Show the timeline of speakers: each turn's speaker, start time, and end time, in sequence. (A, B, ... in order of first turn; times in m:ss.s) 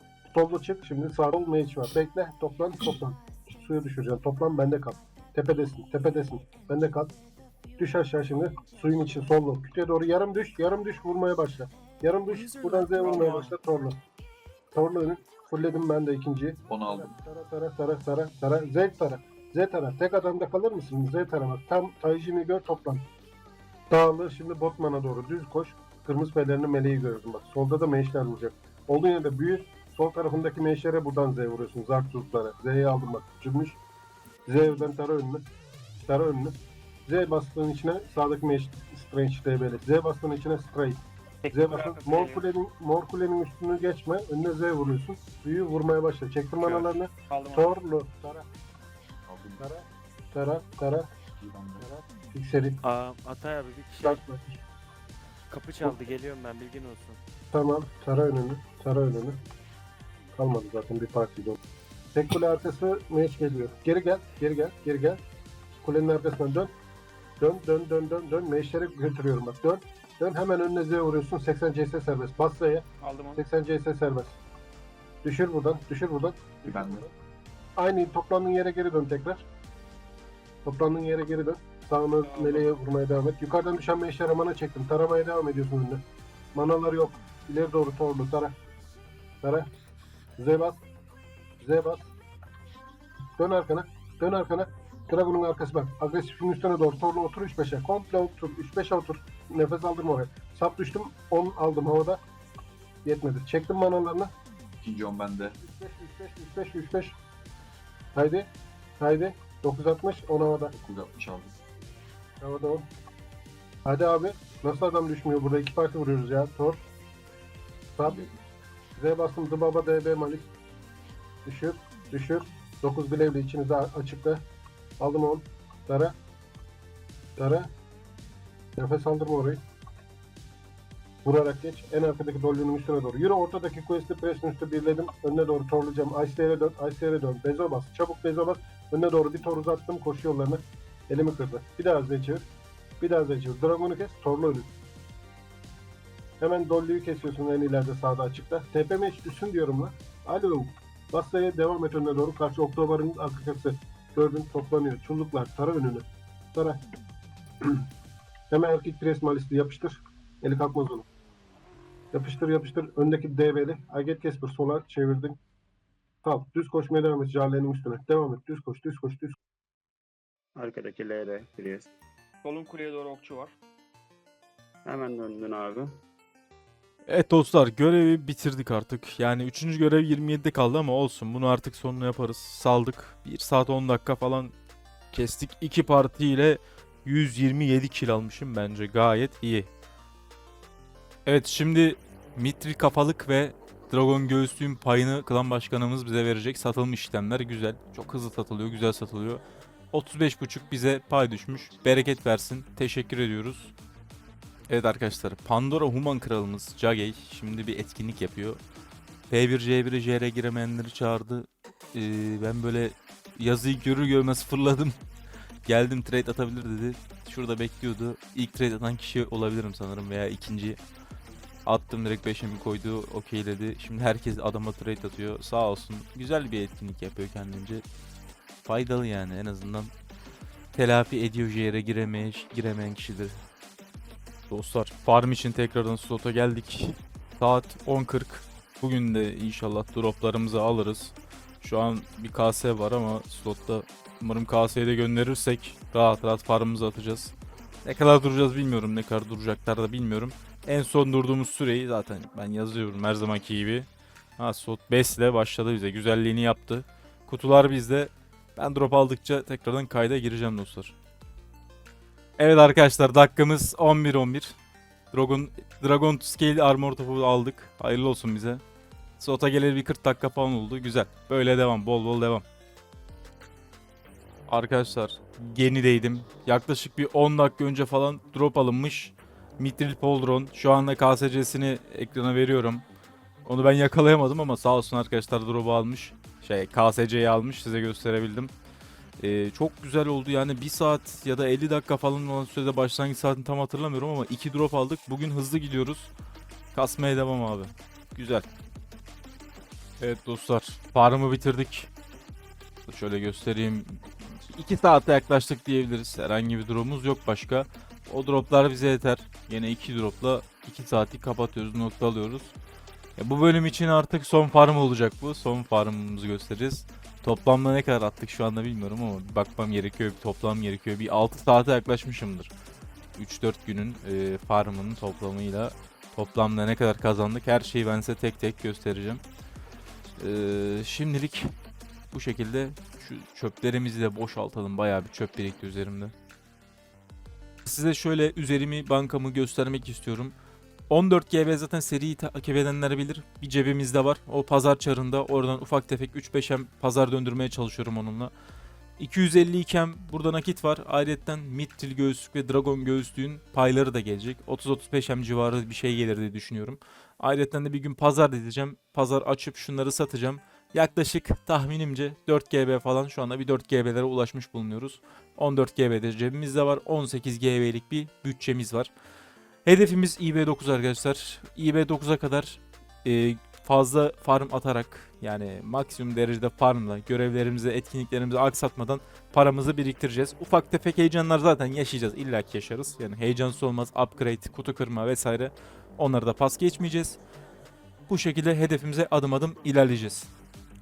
0:00.3-0:07.2 A
0:07.8-0:14.0 A
0:12.9-0:13.5 B
0:14.7-0:23.1 A
0:16.7-0:17.1 C
0:23.9-0:33.8 A
0:34.5-0:35.4 A
0:36.1-0:48.5 A
0:41.5-0:42.4 B
0:46.6-0:47.7 B
0:49.3-0:49.6 C
0:49.6-0:51.1 A
0:51.4-0:51.9 C
0:51.8-0:52.8 A
0:52.8-0:54.2 D
0:54.0-0:54.6 A
0:55.5-0:57.2 D
0:55.8-0:56.1 A
0:57.5-0:59.4 A
1:00.4-1:01.6 A
1:02.1-1:05.2 A
1:05.8-1:06.7 A
1:07.4-1:14.4 A
1:13.0-1:13.4 B
1:15.2-1:17.1 A
1:16.7-1:17.1 C
1:17.8-1:19.5 A
1:20.6-1:28.6 A
1:22.2-1:22.8 B
1:30.4-1:30.8 A
1:31.6-1:32.1 A
1:33.4-1:42.2 A
1:43.0-1:44.3 A
1:44.8-1:45.6 C
1:45.6-1:47.2 A
1:48.2-1:48.5 A
1:49.0-1:50.7 A
1:50.7-1:51.6 C
1:52.4-1:52.8 A
1:53.8-1:56.8 A
1:59.0-2:00.5 A
2:01.4-2:04.4 A
2:05.0-2:06.2 A
2:07.4-2:07.7 A
2:08.8-2:09.6 A
2:11.2-2:22.5 A
2:23.0-2:24.7 A
2:26.4-2:36.8 A
2:38.5-2:41.1 A
2:42.1-2:45.4 A
2:46.2-2:49.4 A
2:50.6-2:51.9 E
2:52.4-2:53.6 B
2:54.8-2:56.0 E
2:57.1-3:04.5 F
3:05.1-3:09.7 F
3:11.3-3:23.7 F
3:24.7-3:28.6 F
3:29.3-3:35.0 F
3:35.7-3:40.8 F
3:41.6-3:47.8 F
3:48.6-3:49.9 F
3:50.8-3:53.4 F
3:54.5-4:07.3 F
4:07.8-4:21.0 F
4:22.4-4:24.6 F
4:25.1-4:28.6 F
4:29.2-4:32.5 F
4:34.5-4:42.8 F
4:43.4-4:48.5 F
4:49.2-4:56.1 F
4:56.7-4:58.5 F
5:00.0-5:01.9 F
5:02.9-5:12.5 F
5:13.2-5:22.5 F
5:23.2-5:29.2 F
5:30.2-5:31.5 F
5:32.1-5:36.1 F
5:37.6-5:40.4 F
5:40.9-5:48.3 F
5:49.0-6:08.9 F
6:09.6-6:27.2 F
6:28.1-6:30.3 F